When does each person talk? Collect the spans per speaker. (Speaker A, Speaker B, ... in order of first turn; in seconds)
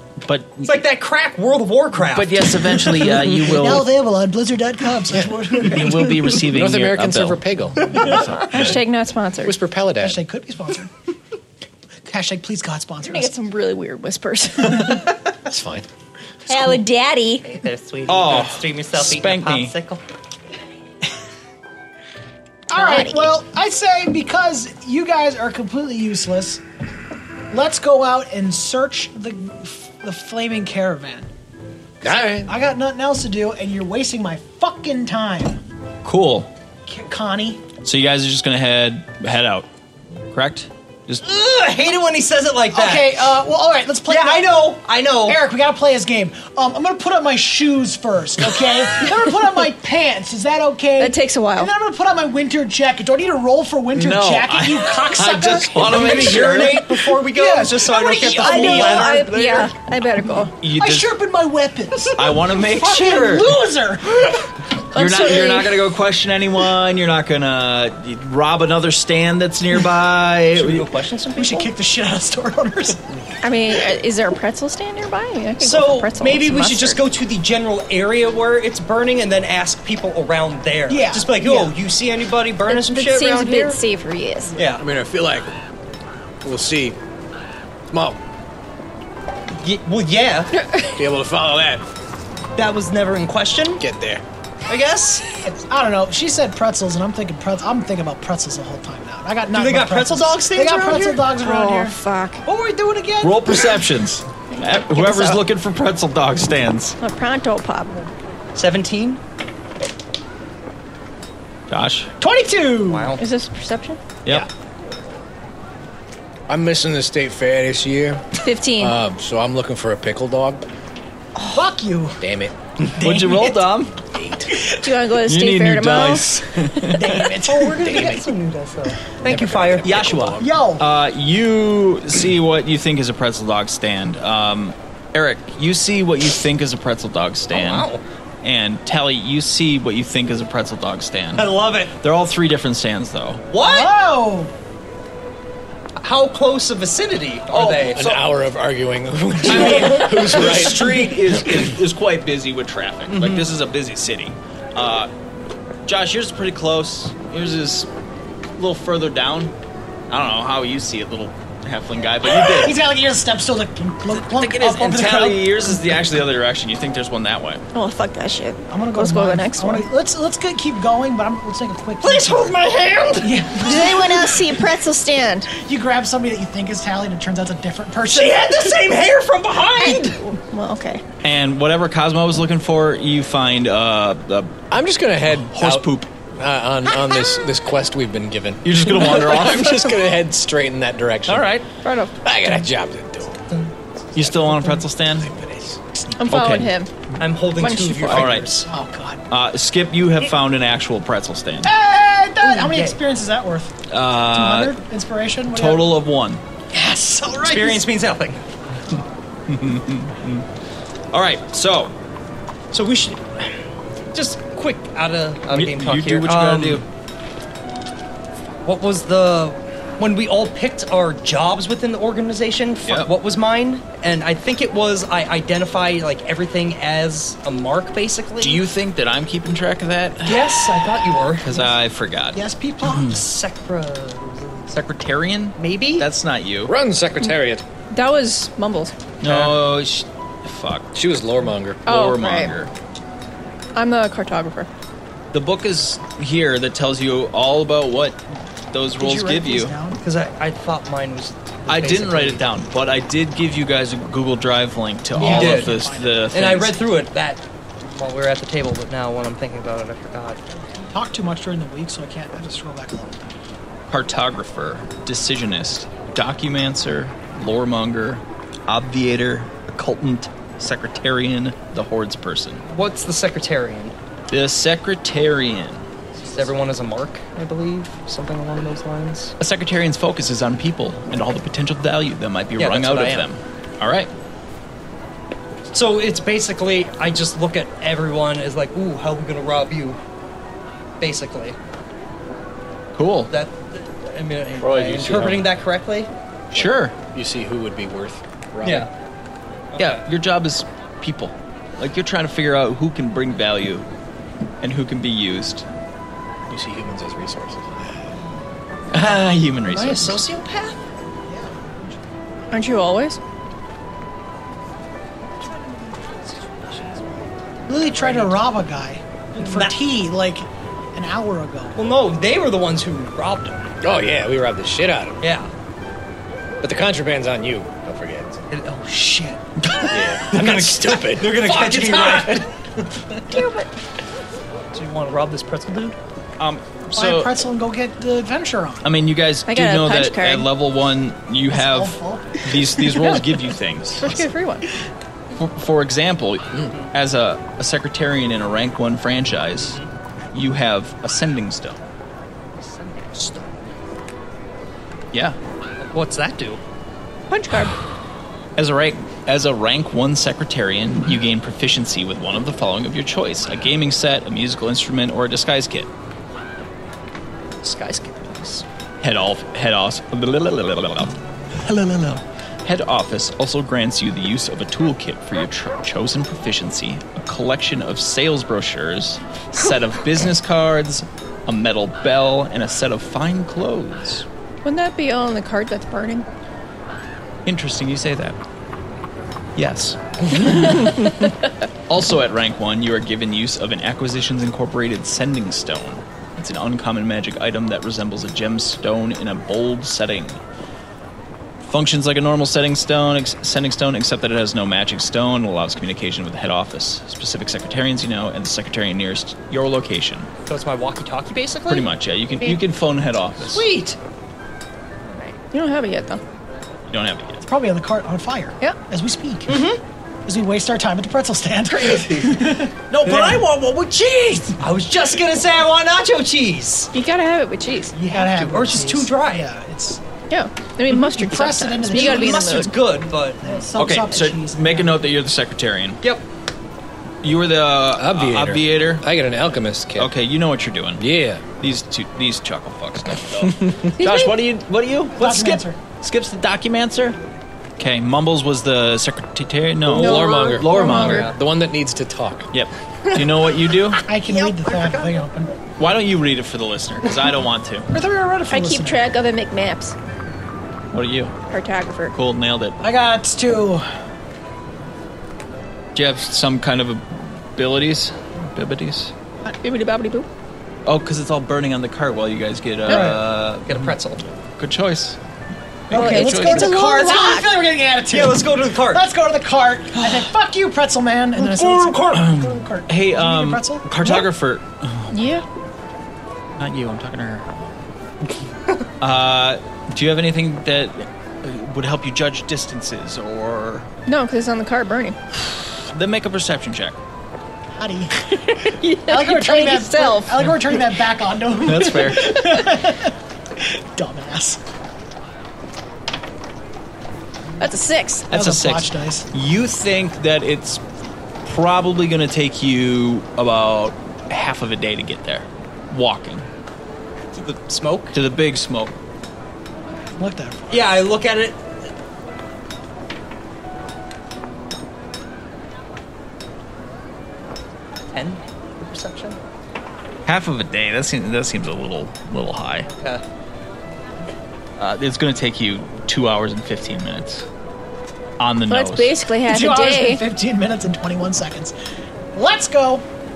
Speaker A: 0.2-0.7, 2.1-3.9, 5.6-7.4, 7.9-8.5, 18.1-19.7, 36.0-36.5, 37.8-39.7, 40.3-41.2, 54.0-56.9, 60.6-61.1, 62.1-63.5, 64.9-70.9, 103.2-107.0, 111.7-112.1, 123.0-124.0, 124.6-127.2, 129.8-137.9, 138.4-143.4, 147.5-148.3, 149.4-155.1, 155.9-157.9, 158.6-159.5, 160.1-162.8, 164.1-167.6, 181.2-184.6, 185.4-186.1, 188.6-189.8, 191.3-191.7, 194.2-195.3, 196.2-196.7, 198.1-198.6, 199.3-201.7, 203.9-204.8, 205.5-206.4, 209.5-210.5, 211.1-211.9, 215.5-216.9, 222.8-223.1, 228.4-233.2, 234.7-236.7, 239.2-240.9, 241.8-242.7, 245.3-248.2, 248.7-249.7, 251.7-256.8, 263.9-272.6, 274.3-275.9, 279.4-284.1, 293.0-293.3, 294.9-295.2, 296.5-296.9, 299.8-303.9, 304.6-305.7, 308.9-310.2, 331.4-332.5, 336.4-337.4, 338.8-344.2, 345.3-349.8, 350.3-351.8, 358.6-365.9, 369.0-384.3, 387.5-388.4, 389.6-391.2, 391.9-400.4, 401.6-410.3, 411.7-413.6, 416.9-417.4, 421.8-424.6, 433.8-436.0, 437.2-439.1, 440.0-441.1, 441.6-447.2, 447.8-451.3, 452.5-454.1, 455.8-457.9, 460.9-461.3, 462.1-462.8, 465.9-469.1, 470.9-473.9, 474.6-475.2, 475.9-476.8, 482.1-485.1, 486.6-487.6, 489.0-493.9, 495.3-497.0, 501.6-502.6, 508.3-510.8, 511.4-516.5, 518.1-519.0, 530.3-532.9, 534.8-537.5, 538.4-539.1
Speaker B: 0.6-2.9, 17.4-20.0, 41.2-43.2, 44.1-45.4, 55.8-59.7, 62.0-63.5, 70.5-71.7, 75.6-83.8, 84.6-84.9, 89.5-90.5, 92.5-93.8, 94.7-95.2, 99.5-101.1, 108.5-109.2, 112.9-113.2, 127.2-130.0, 137.5-138.0, 141.3-141.9, 143.5-143.9, 146.0-148.1, 149.7-150.0, 153.1-153.4, 172.0-173.3, 178.1-180.2, 197.2-198.7, 202.4-203.0, 207.4-208.4, 212.7-216.8, 218.7-228.6, 230.2-231.7, 233.1-234.8, 235.6-236.1, 239.2-239.6, 250.0-252.4, 255.2-255.7, 256.3-260.4, 272.7-273.9, 276.1-279.4, 282.6-283.3, 285.7-290.0, 291.0-291.6, 293.3-296.1, 298.6-298.9, 299.7-300.0, 309.7-310.8, 315.4-318.4, 319.4-319.7, 321.8-323.7, 325.2-325.5, 328.5-329.0, 330.3-332.4, 334.7-336.0, 349.6-349.9, 352.6-353.6, 355.8-356.6, 367.6-368.6, 410.5-411.9, 413.4-414.0, 419.5-419.8, 423.1-423.4, 424.6-426.9, 427.9-429.5, 431.9-433.6, 451.0-451.4, 454.2-455.3, 473.7-474.2, 478.1-479.0, 481.4-482.3, 517.4-518.2, 520.7-521.6, 528.1-529.4, 532.9-533.2
Speaker C: 3.3-6.4, 10.0-10.9, 12.1-13.3, 22.7-26.6, 27.5-31.3, 32.5-35.6, 36.9-37.6, 42.7-59.3, 60.8-64.4, 71.4-73.0, 80.9-81.8, 95.4-103.8, 112.2-113.2, 121.5-122.2, 123.0-123.6, 126.9-128.3, 130.4-130.9, 143.6-144.5, 162.2-166.1, 168.7-172.6, 173.2-174.5, 175.5-178.7, 198.6-199.2, 201.6-203.8, 204.3-205.9, 206.7-207.9, 232.3-233.2, 249.0-250.0, 255.1-256.4, 260.8-263.4, 311.3-312.0, 317.7-321.8, 328.9-329.4, 336.9-338.9, 341.5-342.6, 417.4-419.7, 420.2-422.9, 428.1-430.0, 431.0-432.6, 433.4-435.0, 445.1-445.8, 454.0-455.5, 457.9-459.0, 462.8-463.8, 472.9-473.2, 475.9-484.2, 497.7-498.3, 499.1-504.6, 508.3-509.3, 520.1-520.9, 539.5-541.7, 542.3-543.0
Speaker D: 6.4-8.8, 9.4-10.2, 15.4-15.9, 32.0-32.5, 84.8-85.5, 86.4-87.0, 87.9-88.2, 91.0-91.8, 93.8-94.2, 116.5-118.2, 118.8-120.7, 122.2-122.6, 124.1-124.5, 129.3-130.5, 147.9-151.2, 184.7-191.6, 192.2-193.5, 194.2-194.6, 195.1-195.8, 236.7-237.6, 240.9-241.8, 294.6-295.5, 296.5-298.9, 306.5-308.2, 323.8-325.2, 326.6-328.4, 329.9-331.5, 438.0-440.1, 441.0-441.4, 443.4-443.9, 449.9-452.5
Speaker E: 8.3-9.6, 13.0-15.1, 16.5-17.5, 22.7-23.3, 51.0-51.7, 58.3-60.5, 64.9-65.9, 73.4-77.0, 82.7-84.5, 90.5-91.0, 101.1-102.5, 104.5-105.4, 107.0-108.1, 113.2-114.0, 118.4-119.0, 124.8-126.3, 167.7-169.9, 173.6-175.5, 179.8-181.0, 191.8-192.2, 196.2-196.9, 197.6-198.4, 237.9-238.9, 241.8-242.5, 243.8-244.7, 312.5-313.2, 333.3-333.7, 339.5-340.5, 344.0-344.7, 357.3-357.8, 384.6-386.3, 415.1-416.2, 426.9-428.0, 430.3-432.8, 444.0-444.4, 449.9-451.4, 458.5-459.9, 461.5-462.1, 469.5-470.3, 475.9-477.6, 485.1-485.5, 494.1-495.2, 498.2-500.6, 507.6-508.3, 538.6-540.2